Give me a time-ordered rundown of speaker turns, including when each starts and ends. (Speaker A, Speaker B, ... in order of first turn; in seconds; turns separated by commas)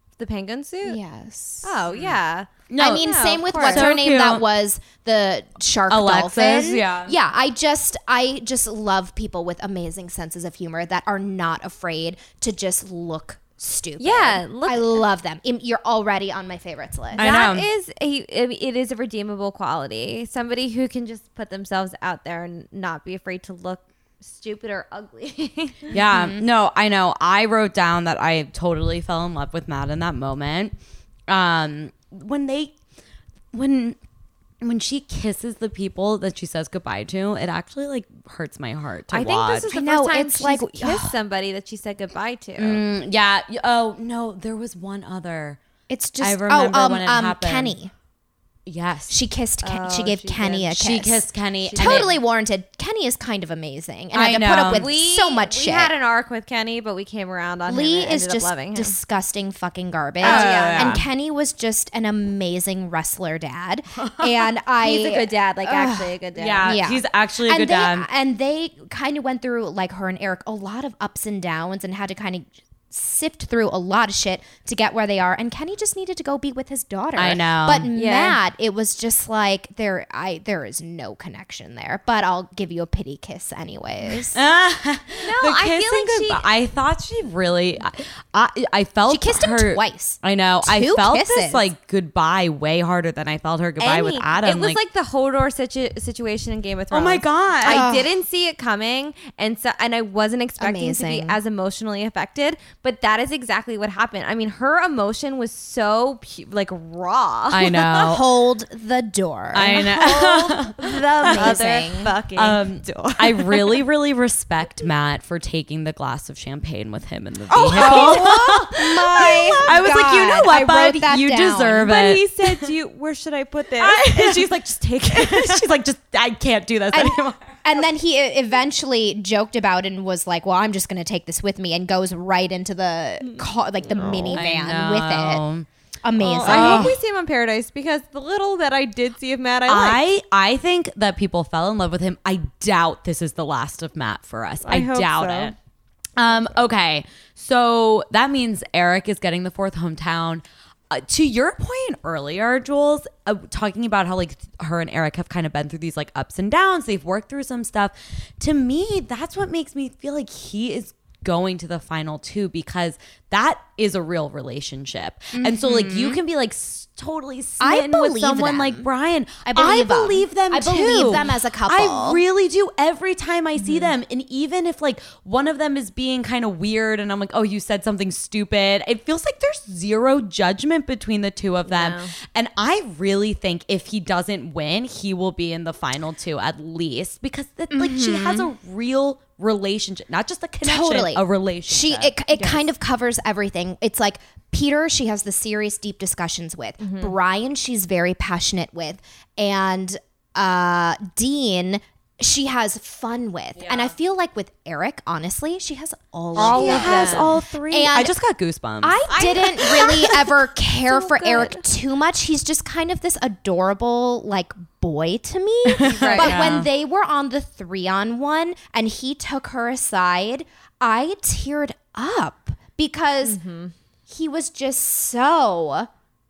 Speaker A: 0.2-1.0, Speaker B: 0.8-1.9, Speaker A: 1.6-3.9, Speaker C: 2.7-4.5, Speaker B: 2.8-17.3, Speaker C: 5.9-7.2, Speaker A: 14.0-15.0, Speaker A: 17.1-25.9, Speaker C: 17.2-17.7, Speaker C: 25.9-30.8, Speaker B: 26.1-26.4, Speaker C: 31.3-32.8, Speaker C: 33.5-34.0, Speaker C: 34.6-39.7, Speaker A: 39.1-42.8, Speaker B: 39.7-41.1, Speaker C: 42.6-45.6, Speaker B: 45.9-47.9, Speaker C: 46.2-47.8, Speaker C: 48.7-49.2, Speaker B: 49.1-55.9, Speaker A: 49.6-50.8, Speaker C: 50.8-52.2, Speaker A: 51.6-52.2, Speaker C: 54.1-54.9, Speaker A: 54.7-59.0, Speaker B: 57.7-84.4, Speaker A: 60.2-61.0, Speaker C: 60.2-61.0, Speaker C: 64.0-64.3, Speaker A: 64.8-66.8, Speaker C: 66.4-68.1, Speaker C: 77.2-77.9, Speaker A: 77.9-78.4, Speaker C: 84.3-94.8, Speaker A: 85.2-86.4, Speaker B: 89.1-91.7, Speaker A: 93.8-108.2, Speaker C: 96.9-97.8, Speaker B: 97.7-98.1, Speaker B: 100.6-101.4, Speaker C: 107.5-108.2, Speaker B: 108.0-109.9, Speaker C: 109.5-111.6, Speaker A: 109.7-113.8, Speaker B: 111.2-112.1, Speaker C: 112.3-122.7, Speaker B: 117.5-121.9, Speaker A: 117.7-119.8, Speaker A: 121.8-125.7, Speaker C: 123.8-127.6, Speaker B: 126.9-135.4, Speaker A: 133.2-134.4, Speaker C: 134.3-135.7, Speaker B: 136.0-137.0, Speaker A: 136.2-140.0, Speaker C: 136.4-137.0, Speaker C: 139.7-145.6, Speaker A: 144.7-145.6, Speaker C: 146.2-192.2, Speaker B: 165.3-166.2, Speaker B: 167.6-168.9, Speaker B: 169.4-172.2, Speaker A: 173.6-173.9, Speaker A: 181.7-182.1, Speaker B: 187.7-188.5, Speaker B: 190.6-208.2, Speaker A: 192.3-192.7, Speaker A: 196.8-197.2, Speaker C: 203.6-203.9, Speaker C: 206.3-209.1, Speaker A: 206.4-207.4, Speaker B: 208.8-223.4, Speaker A: 209.1-210.2, Speaker A: 210.8-211.6, Speaker C: 215.7-216.7, Speaker A: 215.8-216.6, Speaker A: 223.2-223.7, Speaker B: 224.1-225.9